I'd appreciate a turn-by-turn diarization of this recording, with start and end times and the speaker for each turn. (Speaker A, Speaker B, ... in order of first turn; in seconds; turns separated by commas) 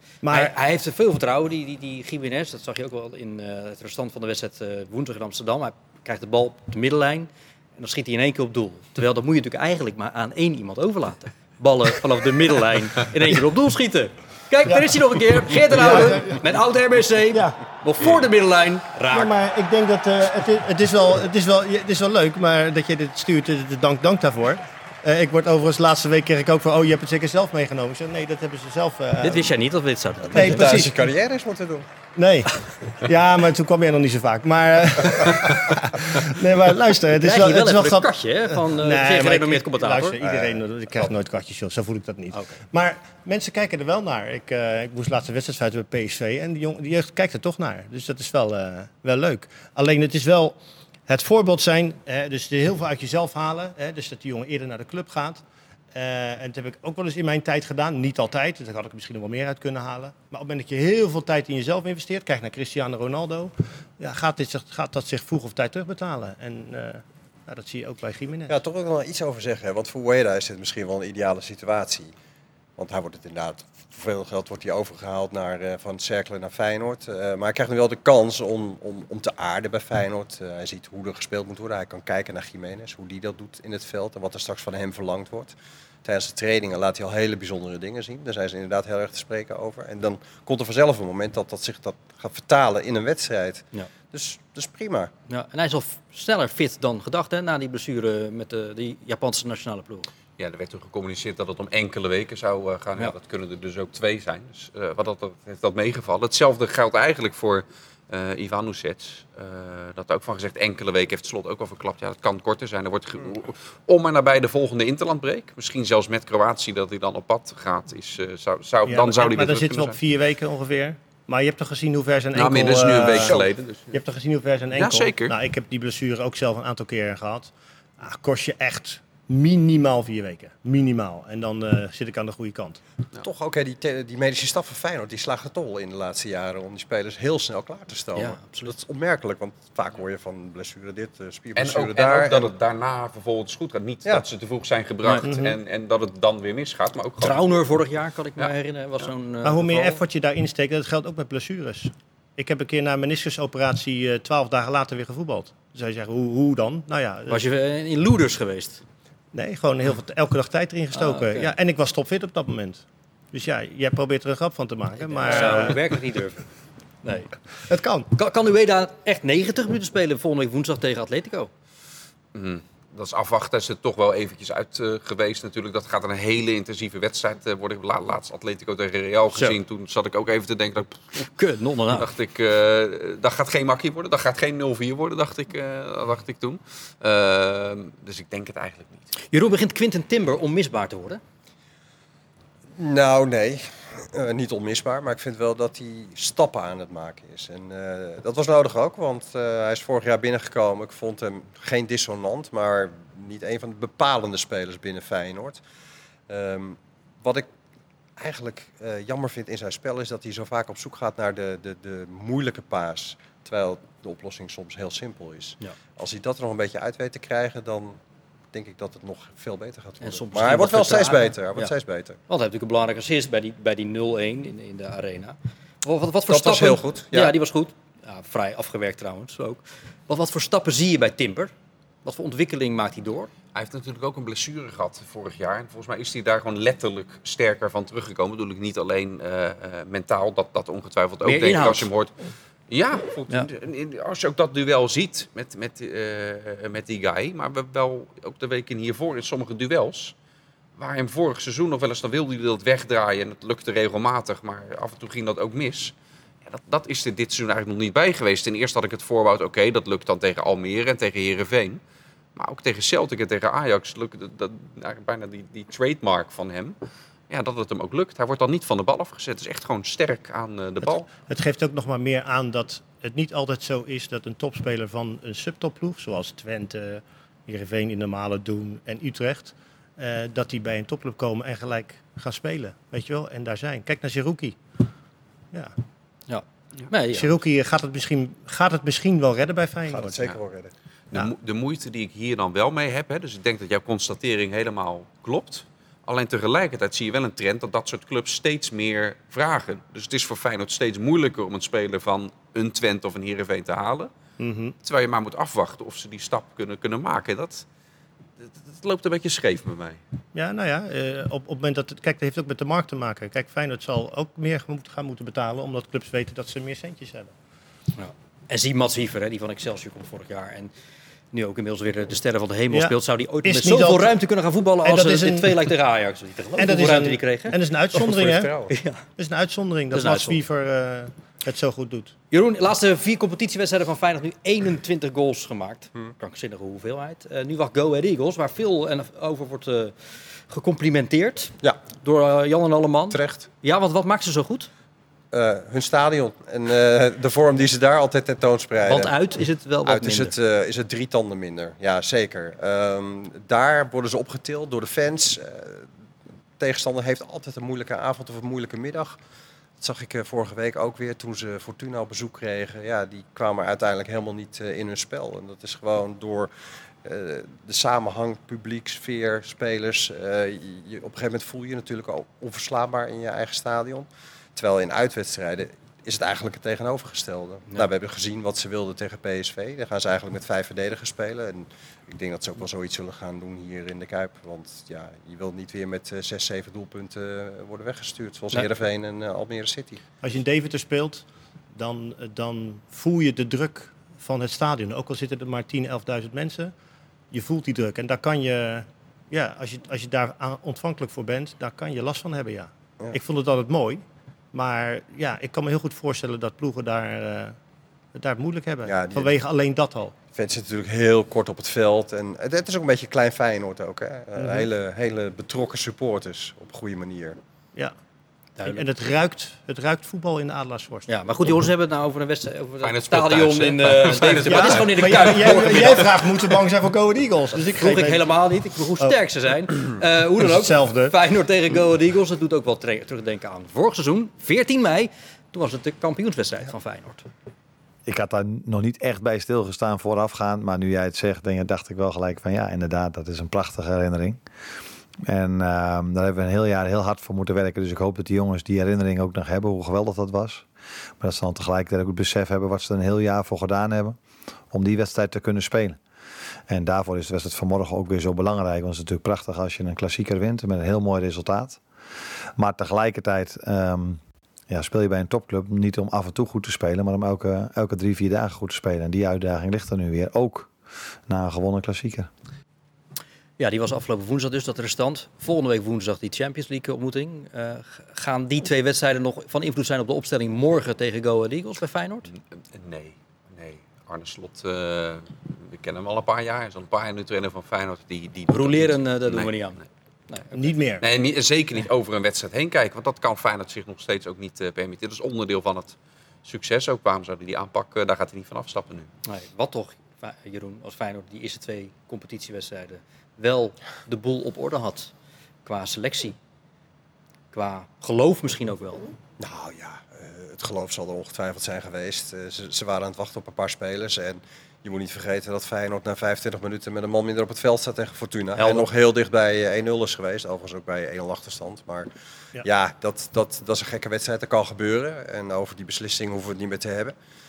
Speaker A: 0.2-0.5, Speaker B: 0.3-19.3, Speaker A: 15.7-16.4, Speaker A: 19.1-29.5, Speaker B: 29.2-30.9, Speaker C: 30.4-31.9, Speaker A: 30.4-30.9, Speaker A: 32.2-50.6, Speaker B: 37.2-40.2, Speaker C: 40.2-40.6, Speaker B: 42.3-42.6, Speaker A: 51.1-68.6, Speaker C: 68.5-72.1, Speaker C: 72.8-95.1, Speaker B: 95.3-100.1, Speaker D: 100.4-120.0, Speaker A: 118.9-132.8, Speaker D: 122.3-123.9, Speaker D: 124.7-125.3, Speaker C: 133.2-142.5, Speaker B: 138.2-138.8, Speaker D: 141.6-147.4, Speaker A: 145.2-145.6, Speaker B: 147.2-150.0, Speaker A: 149.4-157.4, Speaker B: 157.3-158.8, Speaker A: 159.3-166.0, Speaker B: 160.9-161.5, Speaker B: 165.0-166.4, Speaker B: 167.0-167.3, Speaker A: 167.7-168.1, Speaker B: 168.1-171.5, Speaker D: 172.3-181.3, Speaker B: 179.3-179.6, Speaker B: 181.2-182.1, Speaker D: 181.9-189.1, Speaker B: 189.3-191.2, Speaker C: 192.8-205.6, Speaker C: 206.3-207.5, Speaker C: 208.2-218.0, Speaker C: 218.5-222.2, Speaker B: 220.0-221.7, Speaker B: 222.3-231.5, Speaker C: 226.3-227.3, Speaker B: 232.1-233.3, Speaker D: 233.5-242.1, Speaker B: 241.2-241.9, Speaker D: 242.7-250.1, Speaker D: 250.8-255.9, Speaker D: 256.4-261.8, Speaker D: 262.4-266.8, Speaker D: 267.3-271.1, Speaker A: 270.8-284.6, Speaker B: 286.3-287.4, Speaker A: 287.1-290.2, Speaker C: 289.9-290.7, Speaker D: 291.1-304.1, Speaker A: 304.4-304.8, Speaker D: 304.8-307.7, Speaker D: 308.4-310.0, Speaker A: 310.3-317.3, Speaker B: 318.0-320.7, Speaker B: 321.3-329.0, Speaker A: 323.4-324.2, Speaker A: 324.8-325.6, Speaker A: 326.6-328.5, Speaker C: 328.4-328.7, Speaker A: 329.2-332.1, Speaker B: 329.9-330.4, Speaker B: 332.3-344.7, Speaker C: 343.1-343.5, Speaker C: 345.3-349.1, Speaker B: 348.9-350.3, Speaker C: 349.9-355.9, Speaker C: 356.6-359.2, Speaker C: 359.8-366.5, Speaker C: 367.0-390.0, Speaker A: 390.2-396.7, Speaker A: 397.3-407.6, Speaker A: 408.1-410.1, Speaker C: 408.9-409.4, Speaker C: 410.3-417.4, Speaker A: 414.4-414.7, Speaker B: 418.6-418.8, Speaker A: 418.6-421.1, Speaker B: 421.1-426.1, Speaker D: 422.8-426.0, Speaker A: 424.5-428.2, Speaker B: 427.6-437.3, Speaker A: 430.4-431.2, Speaker E: 438.1-444.4, Speaker E: 445.2-450.7, Speaker E: 451.2-454.2, Speaker E: 454.7-456.0, Speaker E: 456.7-461.8, Speaker E: 462.6-470.7, Speaker E: 471.3-472.3, Speaker B: 473.6-482.3, Speaker D: 482.3-489.8, Speaker B: 488.5-489.8, Speaker B: 490.3-490.6, Speaker A: 490.5-491.1, Speaker D: 491.0-499.1, Speaker B: 499.3-505.1, Speaker B: 505.6-506.4, Speaker B: 507.5-509.1, Speaker C: 509.4-522.1, Speaker B: 518.6-518.9, Speaker C: 522.6-527.1